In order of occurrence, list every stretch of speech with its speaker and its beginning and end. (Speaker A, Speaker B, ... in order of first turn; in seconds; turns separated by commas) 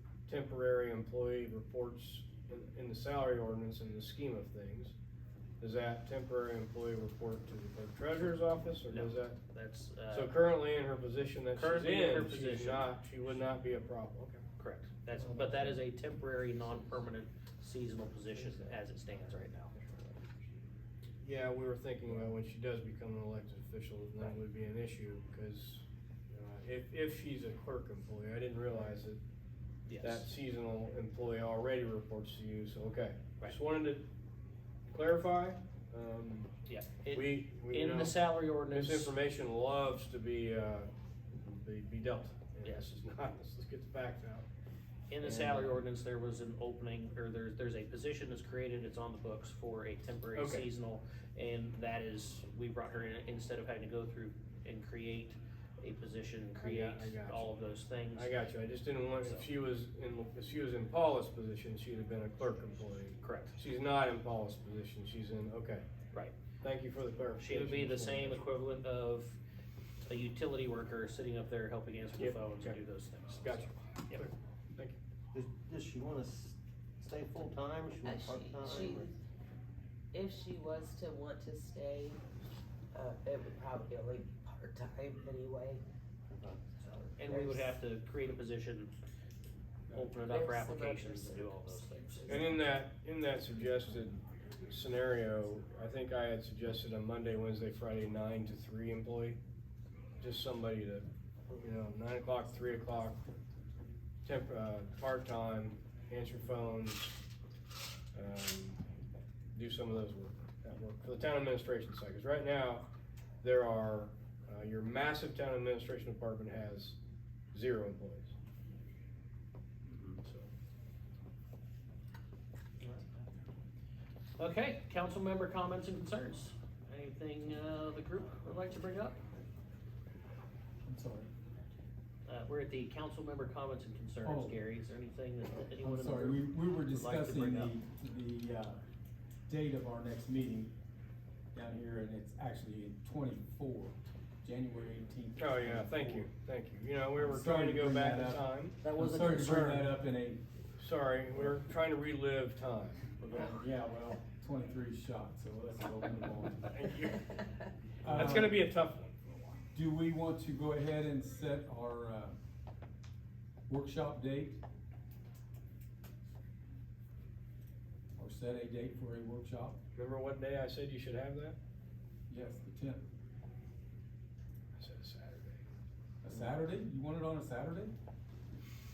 Speaker A: 0.3-4.9, Speaker A: 5.6-9.4, Speaker B: 8.9-10.4, Speaker A: 10.1-14.4, Speaker B: 11.5-12.9, Speaker B: 14.6-20.4, Speaker A: 21.2-29.2, Speaker B: 29.9-30.2, Speaker A: 30.0-34.1, Speaker A: 34.9-36.5, Speaker B: 36.6-39.2, Speaker A: 37.1-38.2, Speaker A: 38.7-44.5, Speaker B: 45.1-58.3, Speaker A: 45.2-45.8, Speaker A: 50.3-50.6, Speaker A: 56.6-57.5, Speaker A: 58.1-65.8, Speaker B: 59.2-59.5, Speaker B: 63.2-63.5, Speaker A: 66.6-68.4, Speaker B: 67.4-69.4, Speaker B: 70.0-74.2, Speaker A: 72.2-75.0, Speaker C: 75.3-79.1, Speaker D: 78.0-79.2, Speaker D: 80.1-82.2, Speaker D: 82.9-85.8, Speaker C: 86.3-86.7, Speaker D: 86.7-87.8, Speaker B: 87.2-88.9, Speaker B: 89.9-92.5, Speaker D: 90.2-92.8, Speaker A: 92.3-99.4, Speaker A: 100.2-101.0, Speaker A: 101.6-103.2, Speaker A: 104.2-107.2, Speaker A: 108.1-108.8, Speaker A: 109.5-112.9, Speaker A: 113.4-117.0, Speaker A: 117.5-118.3, Speaker A: 120.2-120.5, Speaker B: 124.4-129.2, Speaker E: 130.8-131.3, Speaker B: 132.2-137.8, Speaker E: 134.2-134.6, Speaker E: 135.8-138.8, Speaker E: 139.5-140.7, Speaker E: 141.5-146.3, Speaker A: 145.4-148.8, Speaker E: 147.2-150.4, Speaker B: 148.8-149.8, Speaker A: 150.8-153.1, Speaker E: 153.2-156.7, Speaker A: 156.7-157.4, Speaker E: 158.0-158.6, Speaker A: 158.0-159.6, Speaker E: 159.7-162.4, Speaker E: 163.7-164.6, Speaker E: 168.2-169.8, Speaker A: 169.9-171.6, Speaker E: 172.3-173.1, Speaker A: 174.8-175.7, Speaker E: 176.2-177.9